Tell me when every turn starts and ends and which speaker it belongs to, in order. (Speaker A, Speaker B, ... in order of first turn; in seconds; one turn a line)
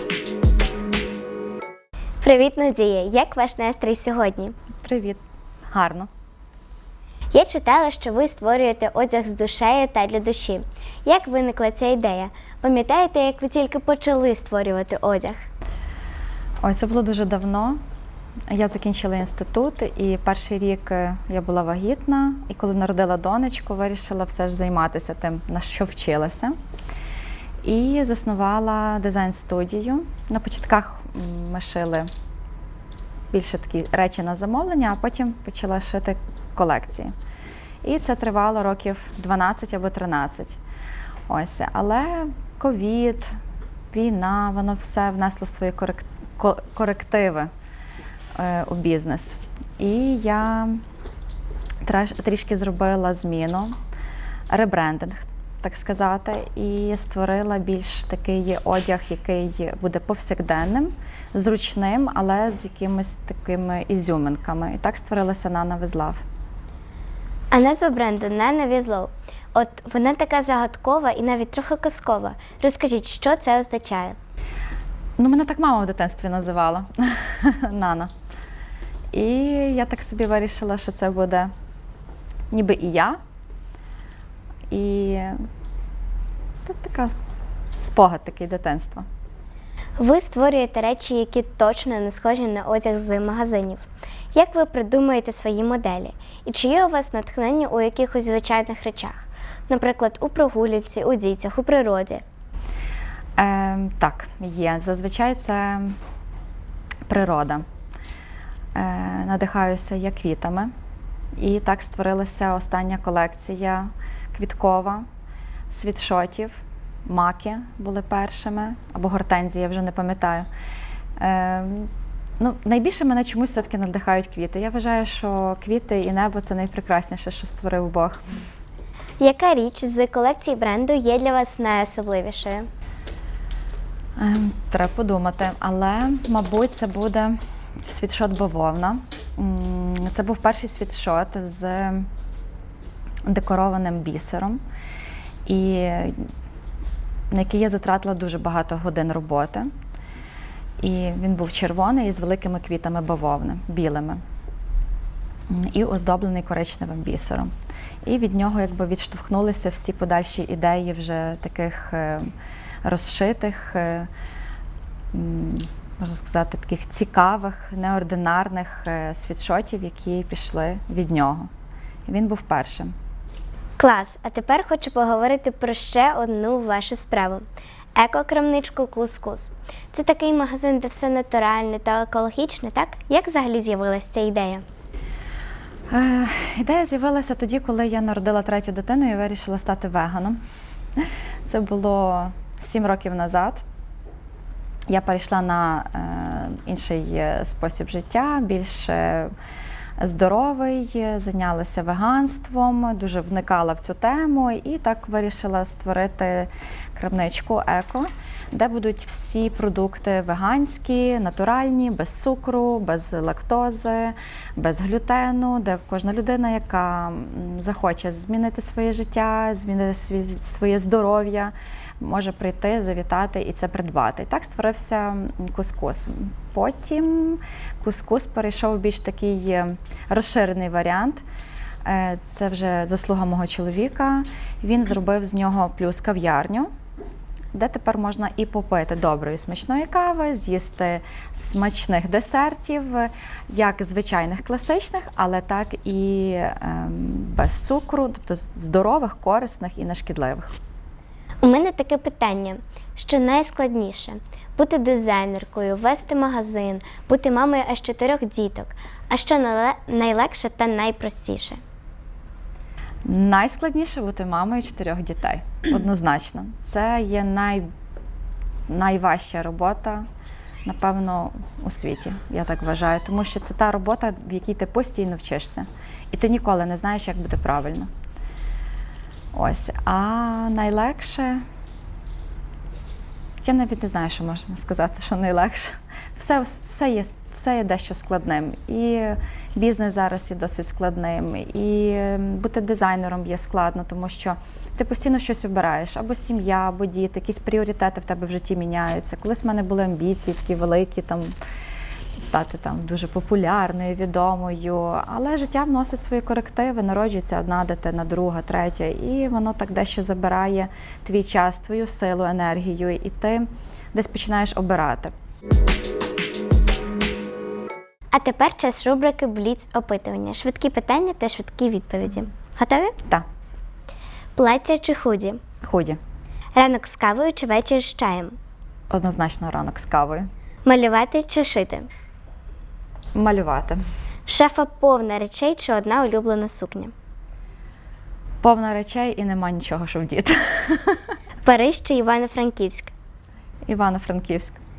Speaker A: 2.2-4.5
Speaker B: 4.8-5.2
Speaker B: 5.7-6.1
Speaker A: 7.3-15.3
Speaker B: 16.6-17.8
Speaker B: 18.5-26.6
Speaker B: 27.6-32.1
Speaker B: 33.3-37.1
Speaker B: 37.8-40.6
Speaker B: 41.3-43.3
Speaker B: 43.9-47.5
Speaker B: 48.3-50.8
Speaker B: 51.8-53.8
Speaker B: 54.5-66.2
Speaker A: 67.5-74.2
Speaker B: 75.2-78.1
Speaker B: 79.1-81.5
Speaker B: 82.5-83.2
Speaker B: 84.7-85.4
Speaker B: 86.6-87.1
Speaker B: 87.8-89.0
Speaker A: 90.0-102.2
Speaker B: 103.4-106.0
Speaker B: 107.1-107.6
Speaker B: 108.7-110.7
Speaker B: 111.3-115.0
Speaker B: 115.7-116.5
Speaker B: 117.0-120.5
Speaker B: 121.2-128.2
Speaker A: 129.2-132.7
Speaker B: 134.2-142.1
Speaker B: 143.2-144.6
Speaker B: 145.4-146.3
Speaker B: 147.3-149.7
Speaker B: 150.8-154.2
Speaker B: 155.5-157.5
Speaker B: 158.0-162.3
Speaker B: 162.8-164.1
Speaker B: 165.1-171.5
Speaker B: 172.1-172.9
Speaker A: 173.8-184.6
Speaker B: 185.9-190.4
Speaker B: 191.0-193.6
Speaker B: 194.9-199.3
Speaker B: 200.0-231.2
Speaker B: 231.8-236.7
Speaker B: 237.5-250.6
Speaker A: 251.4-261.6
Speaker B: 263.1-267.7
Speaker B: 268.7-270.1
Speaker B: 270.6-277.9
Speaker B: 279.3-281.4
Speaker B: 283.4-301.3
Speaker B: 302.1-315.1
Speaker A: 318.1-322.9
Speaker A: 324.4-325.4
Speaker B: 325.6-326.0
Speaker A: 326.5-328.4
Speaker B: 328.9-330.3
Speaker A: 330.6-331.9
Speaker B: 333.1-333.8
Speaker A: 334.3-336.9
Speaker B: 338.4-341.0
Speaker A: 341.4-342.9
Speaker B: 343.7-344.6